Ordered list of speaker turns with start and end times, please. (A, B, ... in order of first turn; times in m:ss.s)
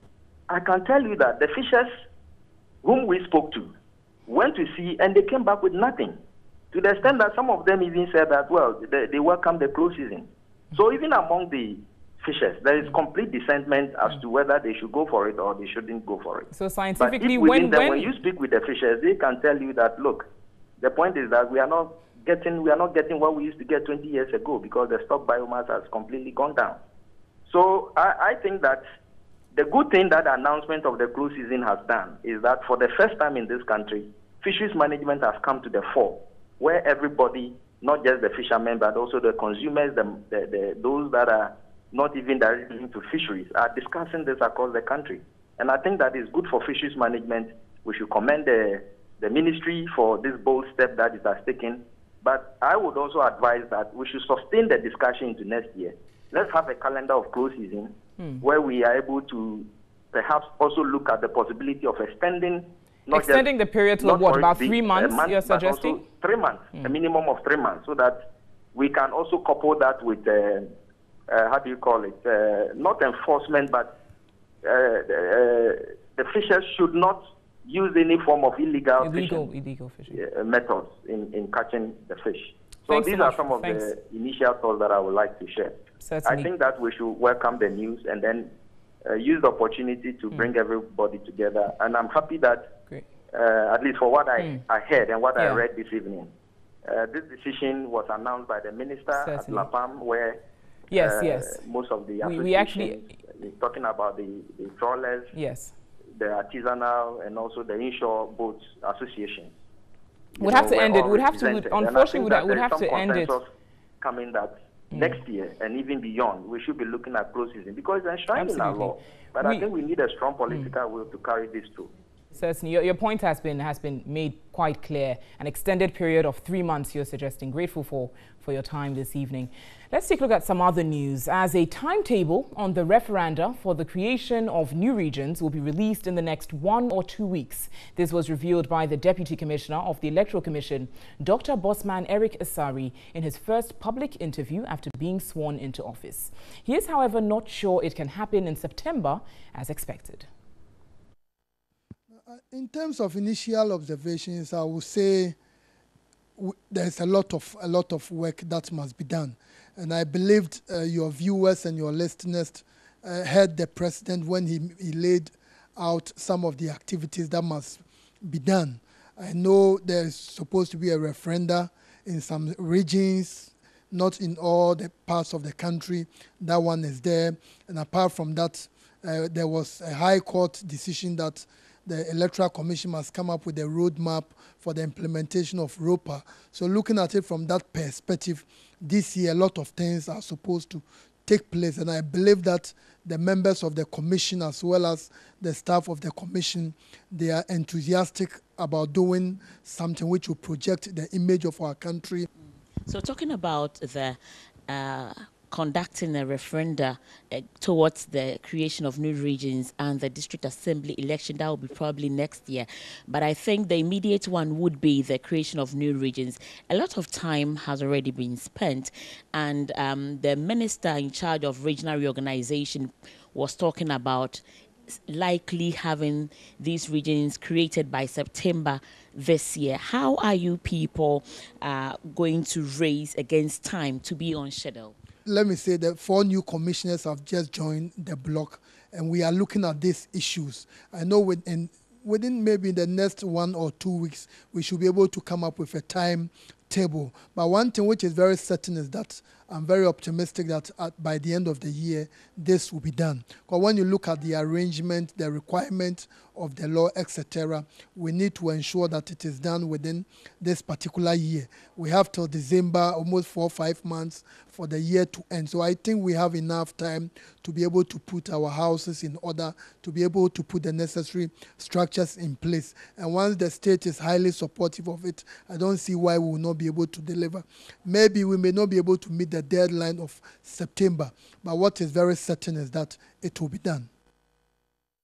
0:00.5-0:01.9 A
0:02.8-0:03.7 A
0:04.3-0:06.2 A
0:06.7-0:20.3 A
0:16.5-0:18.2 B
0:20.8-0:26.8 A
0:27.5-0:28.8 A
0:29.5-1:03.5 A
1:03.1-1:06.0 B
1:04.0-1:08.2 A
1:08.7-1:10.7 A
1:11.3-1:14.0 A
1:14.6-1:19.5 A
1:19.0-1:20.2 B
1:20.1-1:28.5 A
1:22.9-1:23.9 B
1:26.0-1:26.5 B
1:29.0-1:32.7 A
1:33.3-1:36.3 A
1:34.4-1:34.6 B
1:35.4-1:35.6 B
1:36.8-1:40.4 A
1:39.1-1:39.7 B
1:40.9-1:41.6 B
1:41.0-1:45.3 A
1:42.2-1:43.0 B
1:45.3-1:45.7 B
1:46.2-1:49.6 A
1:50.4-1:53.5 A
1:50.4-1:53.4 B
1:54.0-2:01.9 A
1:54.9-1:55.2 B
1:58.3-1:59.7 B
2:02.3-2:30.3 B
2:32.2-2:35.4 C
2:36.4-3:22.3 C
3:22.8-3:44.4 D
3:45.1-3:55.0 D
3:55.3-4:43.9 C